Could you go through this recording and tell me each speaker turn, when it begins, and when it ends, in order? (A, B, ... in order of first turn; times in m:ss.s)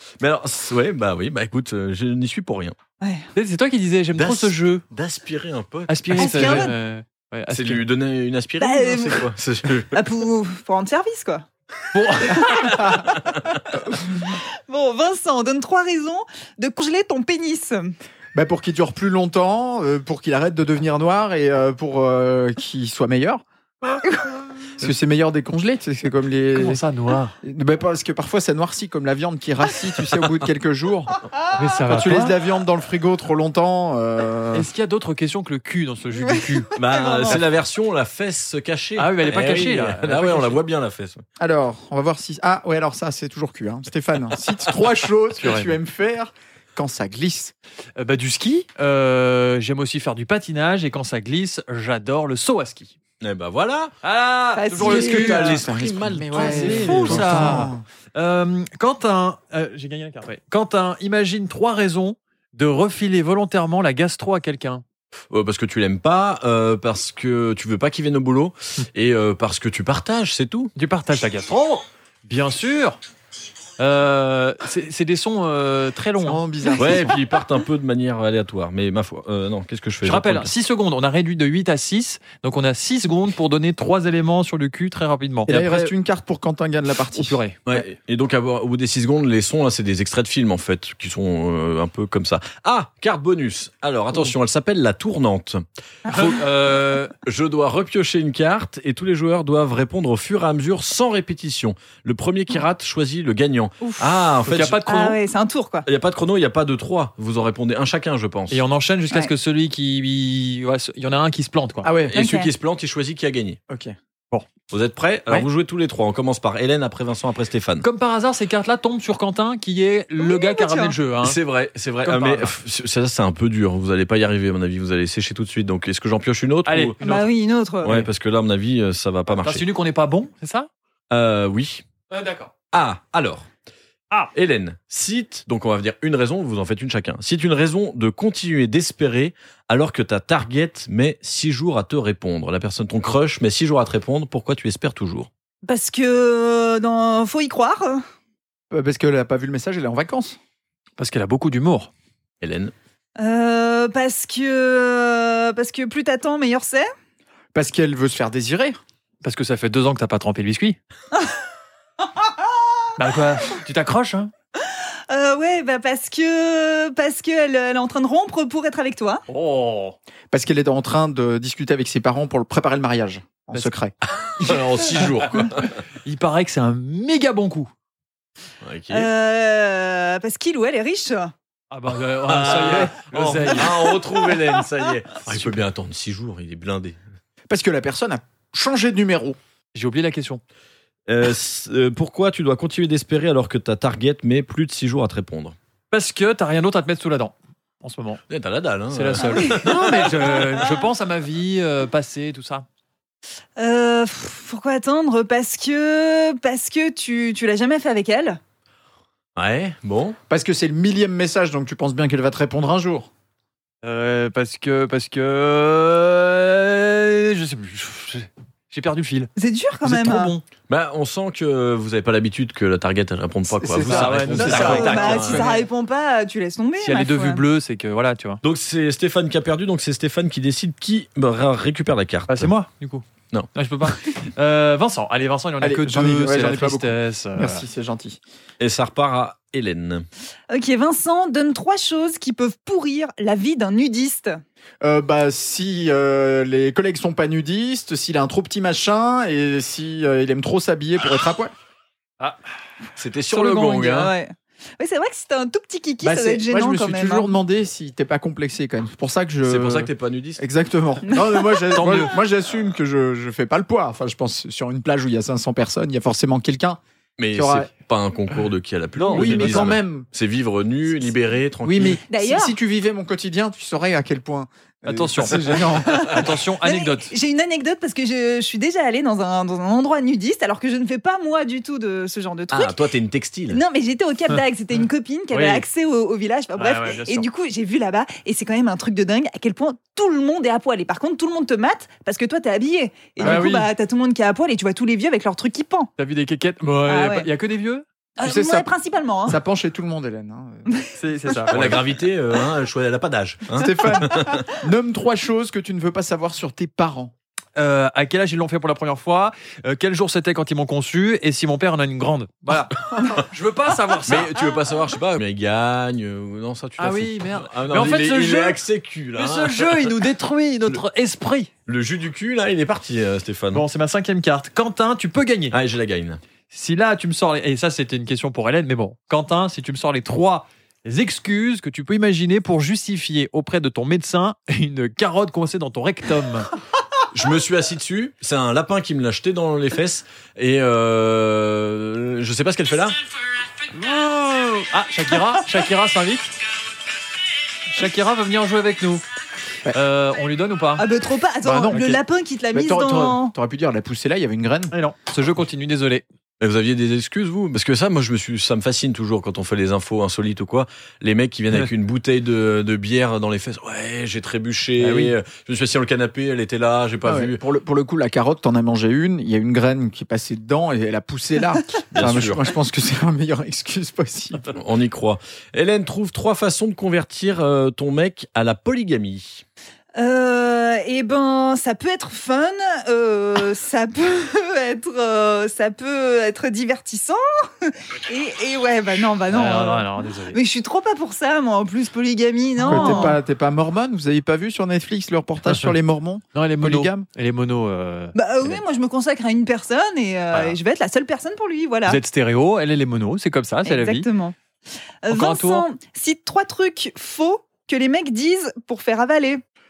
0:00.2-0:02.7 A
0:03.0-0:03.3 B
0:03.3-0:04.8 C
0:04.2-0:06.7 A
0:05.9-0:07.8 C
0:06.2-0:06.7 B
0:07.5-0:10.0 A
0:08.6-0:09.3 B
0:09.9-0:11.4 B
0:11.9-0:13.0 C
0:12.2-0:13.0 B
0:12.5-0:13.1 D
0:14.1-0:17.9 B
0:18.3-0:23.4 D
0:24.8-0:26.8 D
0:26.5-0:27.3 C
0:27.4-0:31.2 D
0:31.5-0:32.3 C
0:31.9-0:34.7 D
0:34.5-0:36.7 C
0:36.7-0:41.2 A
0:36.9-0:37.4 B
0:39.0-0:40.6 C
0:41.4-0:47.5 D
0:45.4-0:45.7 C
0:48.0-0:52.9 C
0:53.2-0:53.9 A
0:54.0-0:55.6 C
0:54.5-0:55.6 B
0:54.8-0:57.7 A
0:55.0-0:57.8 D
0:56.3-1:04.8 C
1:05.3-1:10.7 A
1:10.7-1:13.0 C
1:13.8-1:16.4 C
1:16.2-1:17.2 D
1:16.8-1:20.5 A
1:20.0-1:25.9 C
1:25.4-1:27.4 D
1:27.1-1:27.6 C
1:27.6-1:36.5 A
1:36.1-1:37.1 C
1:37.2-1:45.1 A
1:43.8-1:44.1 B
1:44.4-1:45.2 C
1:44.8-1:45.8 B
1:45.8-1:48.6 A
1:48.5-1:51.9 C
1:51.8-1:52.2 D
1:52.1-1:53.6 A
1:52.1-1:52.5 B
1:53.7-1:53.9 D
1:54.7-1:57.8 A
1:57.8-2:01.4 C
2:00.2-2:01.0 B
2:01.2-2:07.0 A
2:02.0-2:02.5 C
2:06.7-2:07.3 C
2:07.0-2:08.0 B
2:07.8-2:09.6 A
2:09.4-2:10.7 C
2:11.1-2:11.8 A
2:12.1-2:12.5 C
2:12.7-2:13.5 A
2:14.3-2:25.3 A
2:25.6-2:28.0 B
2:28.7-2:30.4 D
2:31.0-2:31.9 C
2:32.4-2:32.7 A
2:33.2-2:36.9 B
2:37.5-2:38.8 D
2:39.2-2:40.8 C
2:43.0-2:44.3 C
2:45.1-2:49.2 B
2:49.3-2:50.0 C
2:50.3-2:53.9 D
2:54.2-2:55.7 A
2:54.4-2:57.7 C
2:58.6-2:59.1 A
2:58.9-3:01.3 B
3:01.7-3:04.0 C
3:02.2-3:07.0 A
3:07.5-3:09.4 D
3:09.7-3:10.4 C
3:11.1-3:15.5 A
3:15.9-3:18.2 C
3:18.3-3:20.4 A
3:18.9-3:22.6 C
3:19.4-3:19.7 B
3:23.6-3:28.4 B
3:29.4-3:30.2 A
3:30.3-3:33.1 D
3:33.8-3:39.3 C
3:39.4-3:40.3 B
3:39.8-3:40.4 C
3:40.7-3:45.5 A
3:43.5-3:45.6 D
3:43.8-3:45.5 C
3:44.4-3:47.4 B
3:46.8-3:48.4 C
3:48.4-3:52.5 A
3:52.3-3:57.6 C
3:55.6-3:58.2 D
3:58.6-4:00.1 A
4:00.5-4:04.4 B
4:04.8-4:11.5 D
4:13.0-4:14.1 A
4:13.4-4:13.8 C
4:13.4-4:17.3 B
4:16.0-4:26.8 D
4:19.4-4:20.4 A
4:21.1-4:21.8 B
4:21.7-4:22.2 C
4:27.2-4:32.0 A
4:27.3-4:27.7 D
4:29.0-4:29.8 C
4:29.1-4:30.1 D
4:31.6-4:36.3 D
4:31.7-4:32.0 C
4:32.1-4:32.5 B
4:34.8-4:37.1 C
4:36.6-4:42.8 B
4:42.5-4:43.6 A
4:43.5-4:55.9 B
4:45.3-4:45.6 C
4:46.5-4:47.2 C
4:53.2-4:53.5 D
4:53.2-4:53.7 C
4:56.0-4:57.8 C
4:56.8-4:57.3 B
4:58.2-4:59.4 B
4:58.2-4:58.7 D
4:59.2-5:00.7 D
5:00.7-5:01.5 B
5:01.0-5:01.7 C
5:01.5-5:04.4 A
5:03.5-5:07.1 D
5:07.6-5:14.3 C
5:14.0-5:20.0 A
5:16.8-5:18.6 C
5:19.2-5:21.5 C
5:21.6-5:23.6 A
5:23.5-5:25.6 C
5:25.5-5:26.2 A
5:26.5-5:36.5 C
5:37.1-5:43.0 A
5:43.7-5:46.4 C
5:47.7-5:49.0 C
5:49.7-5:50.8 C
5:50.8-5:53.3 B
5:51.4-5:54.7 D
5:51.7-5:52.0 C
5:54.7-5:56.0 C
5:56.4-6:07.4 A
6:04.8-6:05.1 C
6:07.0-6:14.4 D
6:11.9-6:12.5 A
6:14.5-6:19.4 A
6:20.0-6:33.2 B
6:29.3-6:30.4 C
6:32.6-6:33.1 C
6:32.6-6:37.0 D
6:36.3-6:38.6 C
6:38.1-6:42.0 B
6:41.9-6:44.1 C
6:43.6-6:44.3 B
6:45.0-6:49.4 B
6:45.1-6:45.6 C